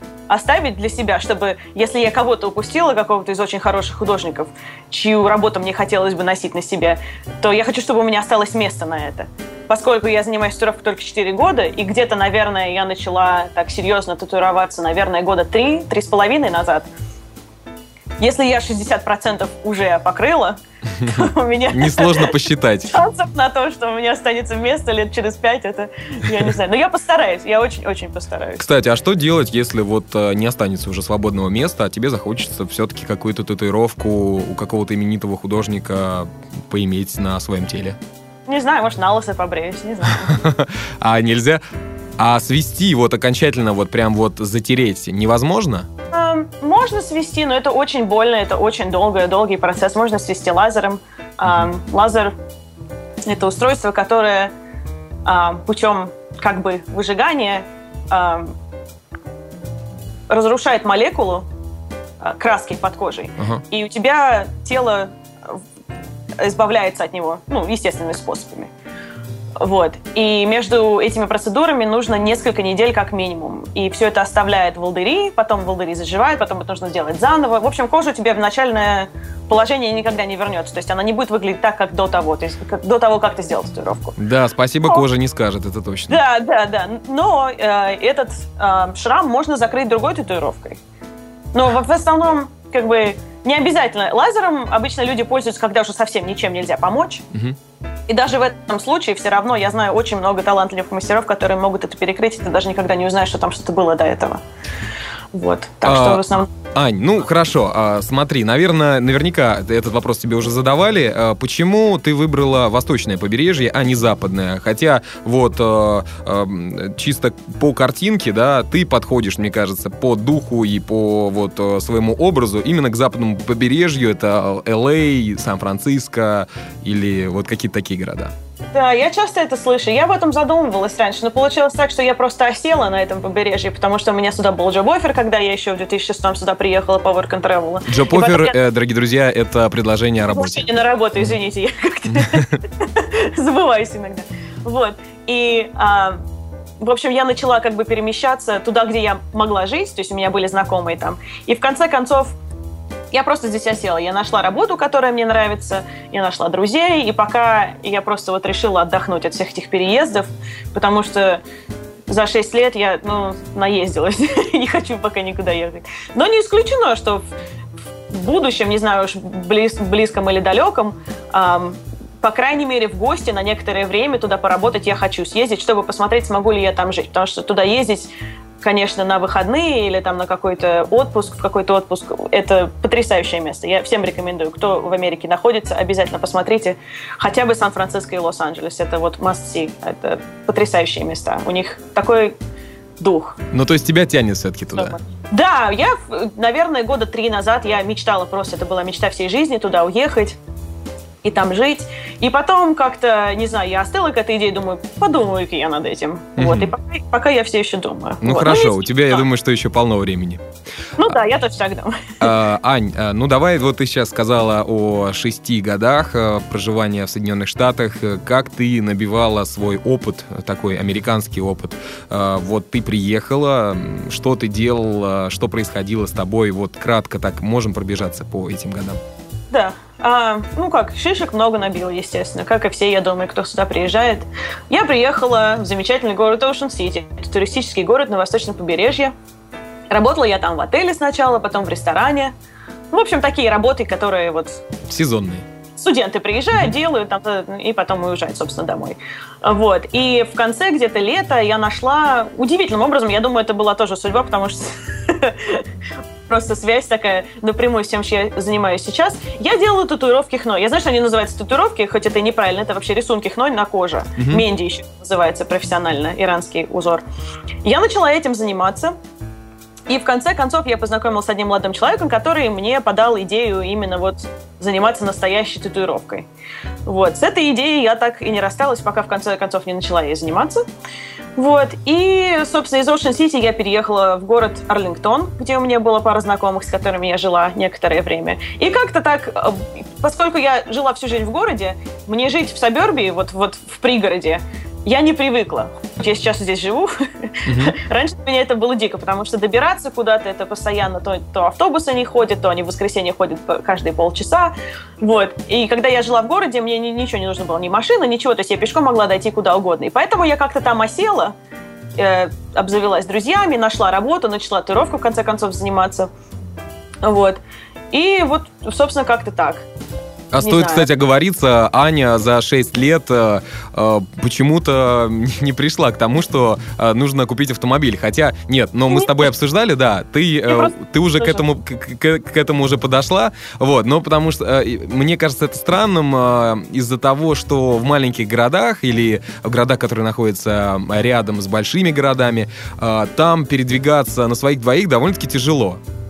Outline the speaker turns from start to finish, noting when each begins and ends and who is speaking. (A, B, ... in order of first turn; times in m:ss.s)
0:00.3-0:16.9 A
0:18.2-0:22.3 A
0:21.0-0:22.9 B
0:22.9-0:28.7 A
0:28.6-0:38.0 B
0:38.5-0:40.4 A
0:40.1-0:41.6 B
0:42.2-0:45.9 B
0:46.1-0:52.3 A
0:53.3-0:54.5 A
0:55.2-0:58.6 A
1:00.3-1:01.5 A
1:02.2-1:05.6 A
1:06.4-1:08.7 A
1:09.6-1:24.2 A
1:24.2-1:26.2 B
1:26.1-1:30.8 A
1:31.5-1:37.2 A
1:37.3-1:37.6 B
1:38.1-1:44.4 A
1:45.3-1:46.5 A
1:45.8-1:46.2 B
1:46.7-2:08.3 B
2:08.7-2:18.6 A
2:17.9-2:20.7 B
2:20.3-2:26.2 A
2:22.2-2:22.6 B
2:26.8-2:32.4 A
2:33.1-2:41.4 A
2:42.1-2:47.2 A
2:48.1-3:12.4 A
3:13.0-3:13.4 A
3:13.5-3:15.0 B
3:14.7-3:20.4 A
3:21.2-3:29.2 A
3:26.4-3:26.7 B
3:28.2-3:30.4 B
3:31.0-3:32.3 A
3:32.2-3:49.0 B
3:49.5-3:59.1 A
3:59.9-4:02.3 A
4:02.9-4:04.6 A
4:04.9-4:05.5 B
4:05.8-4:15.6 A
4:16.3-4:27.0 A
4:24.2-4:24.4 B
4:27.6-4:29.0 A
4:29.9-4:36.3 A
4:36.9-4:40.6 A
4:41.4-5:11.4 A
4:57.5-4:57.8 B
5:12.0-5:16.1 A
5:17.0-5:17.4 A
5:17.9-5:19.7 A
5:20.3-5:45.8 B
5:20.4-5:20.9 A
5:28.9-5:29.3 A
5:30.5-5:31.4 A